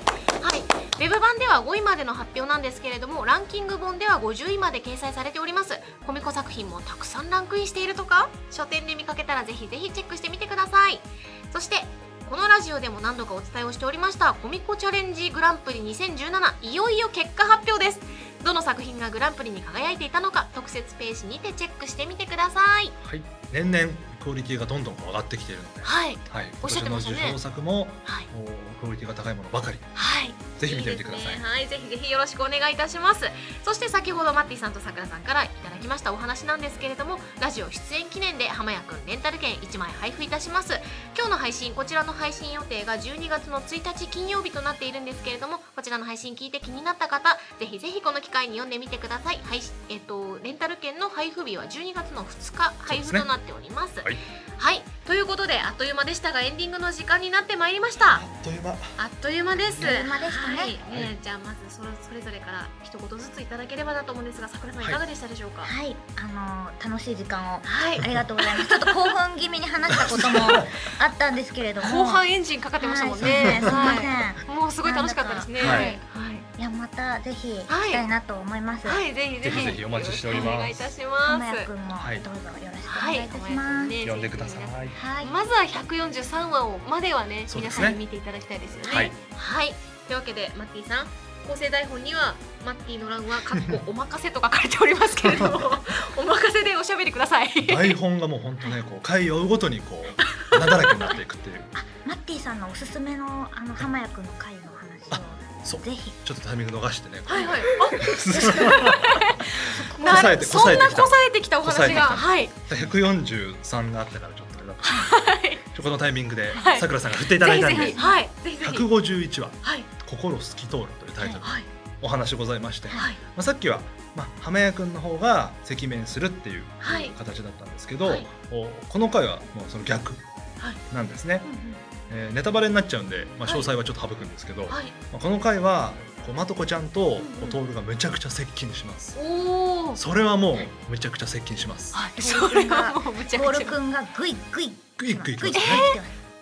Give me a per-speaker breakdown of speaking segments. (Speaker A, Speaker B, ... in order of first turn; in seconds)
Speaker A: 0.4-22.9, 25.8-27.4, 29.9-58.2, 59.0-65.7, 67.6-69.1, 71.8-76.5, 77.7-78.0, 78.8-81.7, 82.8-98.0, 100.2-100.6, 107.3-112.5, 114.8-115.6, 116.6-118.9, 119.6-119.9, 122.9-123.2, 126.8-127.1, 131.4-131.8, 133.4-133.7, 134.7-134.9, 137.2-137.6, 139.1-140.0, 141.9-143.8, 145.5-146.0
Speaker B: 23.0-29.9, 30.6-31.4, 52.9-53.3, 58.0-59.0, 59.6-60.0, 69.9-70.8, 73.2-73.9, 75.6-76.0, 79.4-80.9, 81.9-82.2, 84.0-85.0, 87.5-88.0, 88.9-89.1, 95.2-95.6, 97.6-101.7, 105.1-118.0, 118.6-130.2, 130.9-131.5, 132.1-139.2, 139.9-142.0, 145.0-145.9
Speaker C: 59.8-60.8, 65.6-72.2, 72.8-76.0, 76.6-79.0, 81.2-84.0, 84.9-85.3, 101.8-106.2, 109.6-110.7, 111.9-112.1, 117.7-118.2, 142.2-146.1